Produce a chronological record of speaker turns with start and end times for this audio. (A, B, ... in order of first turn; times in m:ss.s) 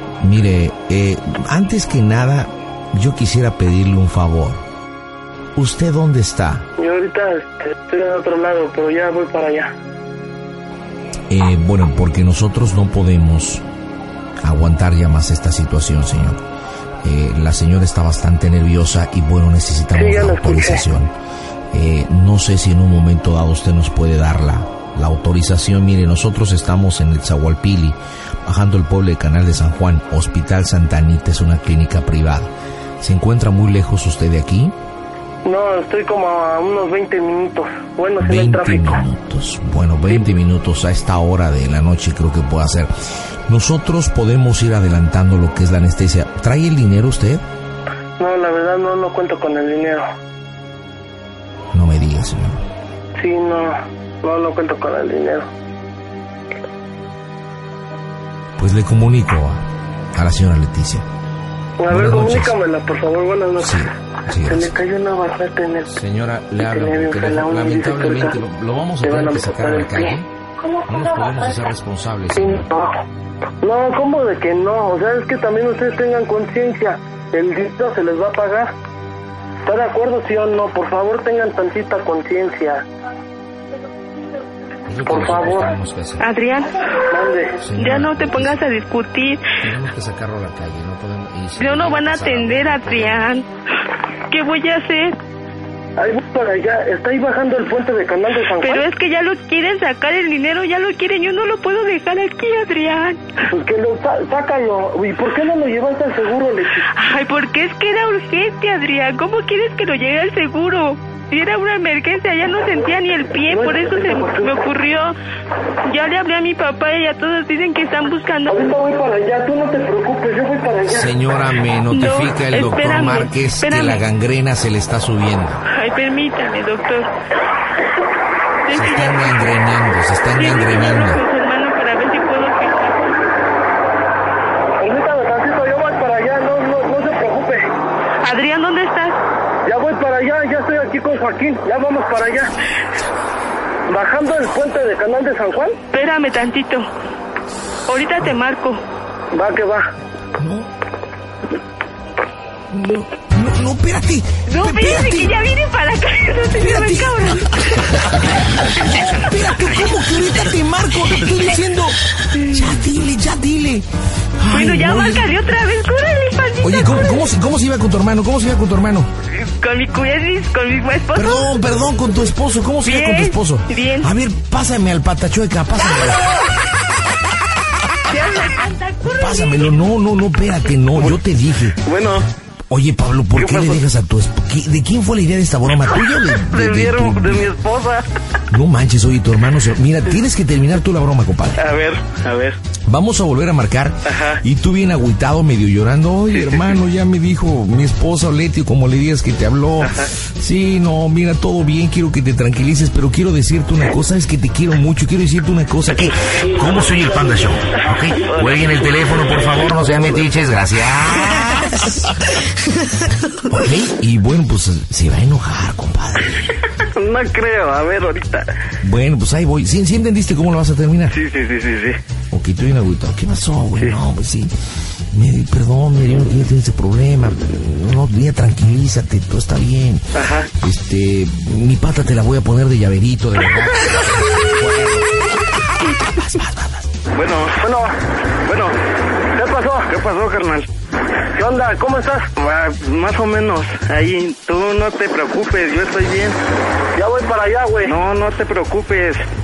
0:00.2-0:04.6 A
0:05.6-0:06.6 A
0:06.8-0:09.7 B
0:11.3-0:13.6 A
0:14.4-0:16.4 A
0:17.0-0:21.1 A
0:19.9-0:20.8 B
0:21.7-0:32.5 A
0:33.0-0:34.7 A
0:35.4-0:39.0 B
0:38.2-0:42.9 A
0:43.5-0:47.4 A
0:48.2-0:50.0 B
0:51.7-0:52.6 A
0:53.2-0:55.5 B
0:58.6-0:59.6 A
1:00.1-1:01.0 A
1:01.8-1:03.8 B
1:01.9-1:02.5 A
1:03.6-1:04.7 A
1:04.4-1:05.9 B
1:05.9-1:10.3 A
1:06.6-1:08.4 B
1:09.0-1:10.2 B
1:10.8-1:12.6 A
1:12.3-1:13.0 B
1:13.6-1:18.7 B
1:19.6-1:22.8 B
1:24.8-1:26.2 A
1:25.0-1:25.8 B
1:26.2-1:26.9 C
1:27.1-1:27.6 B
1:27.6-1:28.6 A
1:27.8-1:29.5 C
1:29.6-1:33.2 A
1:31.6-1:33.5 C
1:34.3-1:35.2 C
1:36.0-1:38.8 B
1:38.6-1:43.2 C
1:43.4-1:46.9 B
1:46.9-1:55.2 C
1:53.5-1:54.6 B
1:55.8-1:58.6 C
1:58.5-2:01.1 B
2:00.8-2:05.6 A
2:01.9-2:04.0 C
2:05.7-2:07.1 C
2:08.6-2:09.4 C
2:08.7-2:11.2 A
2:10.4-2:13.2 C
2:14.8-2:17.7 B
2:18.2-2:19.2 C
2:19.6-2:22.5 B
2:23.9-2:25.8 B
2:25.9-2:26.9 C
2:27.9-2:28.8 C
2:29.3-2:29.8 B
2:30.4-2:30.7 A
2:32.7-2:35.3 A
2:34.5-2:37.5 C
2:36.6-2:43.9 A
2:42.3-2:42.8 C
2:44.4-2:45.3 A
2:44.5-2:47.2 C
2:46.6-2:49.1 A
2:49.4-2:51.5 C
2:51.1-2:56.4 A
2:52.8-2:54.1 C
2:58.1-2:59.7 C
2:59.0-3:01.8 A
3:01.8-3:02.3 D
3:02.7-3:07.5 A
3:03.4-3:03.8 D
3:06.5-3:08.0 D
3:08.5-3:11.6 A
3:11.6-3:12.6 D
3:12.8-3:32.1 A
3:14.1-3:14.4 D
3:16.4-3:16.7 D
3:28.2-3:29.6 D
3:33.5-3:36.6 A
3:36.9-3:38.5 D
3:38.8-3:41.2 A
3:41.1-3:42.0 D
3:42.3-3:44.5 A
3:45.1-3:56.9 A
3:50.2-3:50.5 D
3:57.1-3:57.6 D
3:57.6-3:57.9 B
3:58.5-3:58.8 D
3:59.4-3:59.9 B
3:59.9-4:00.6 D
4:01.3-4:02.5 B
4:02.4-4:06.4 D
4:06.9-4:08.0 B
4:07.8-4:09.2 D